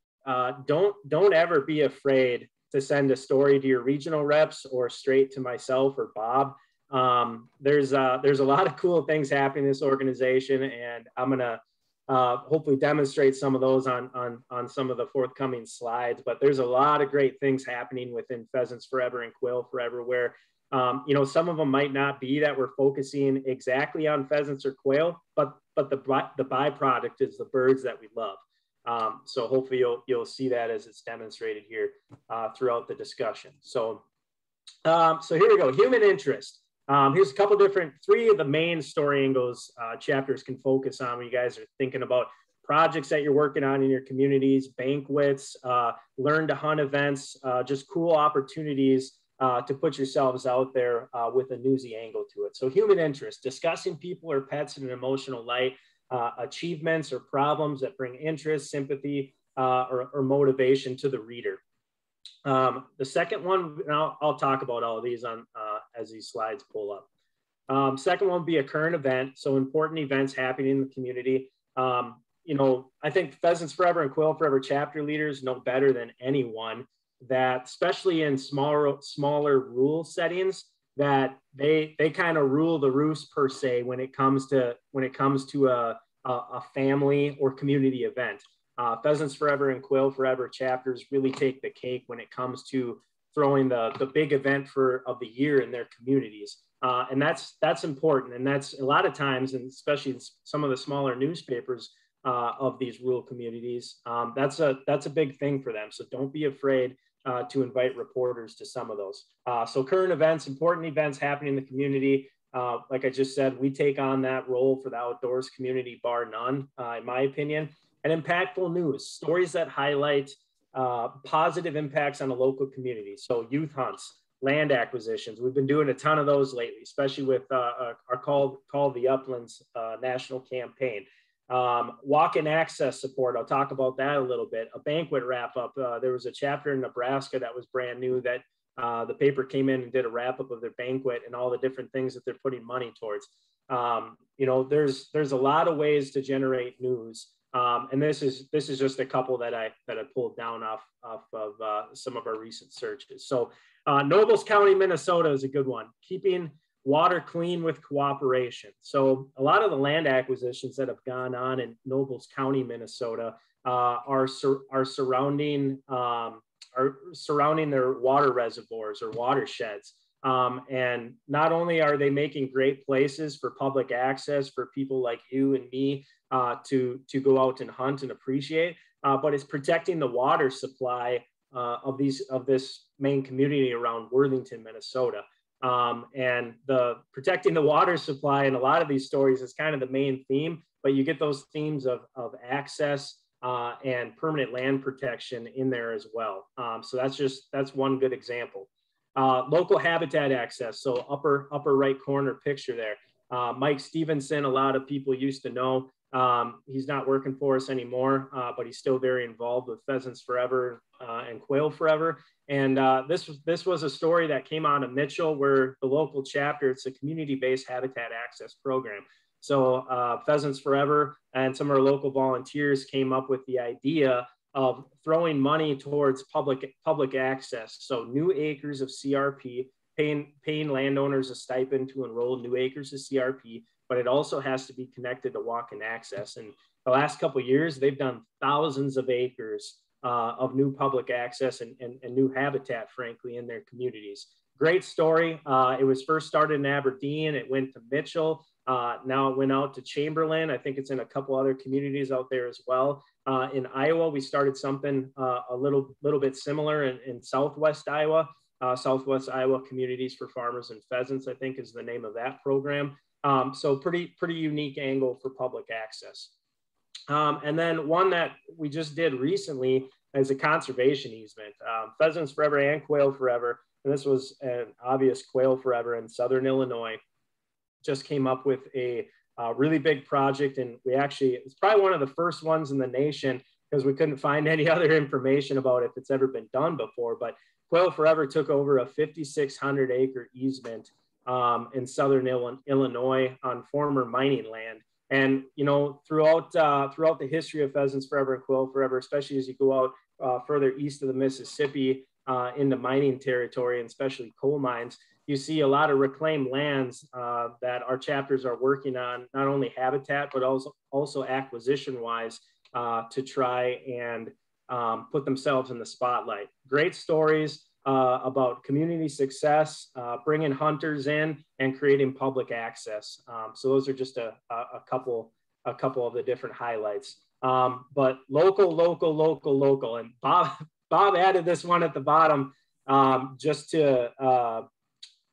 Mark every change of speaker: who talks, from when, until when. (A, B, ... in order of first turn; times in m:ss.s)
0:00.2-0:34.0 A
0:34.8-1:01.6 A
1:02.4-1:07.1 A
1:07.7-4:26.3 A
4:27.1-4:37.0 A
4:37.8-5:34.7 A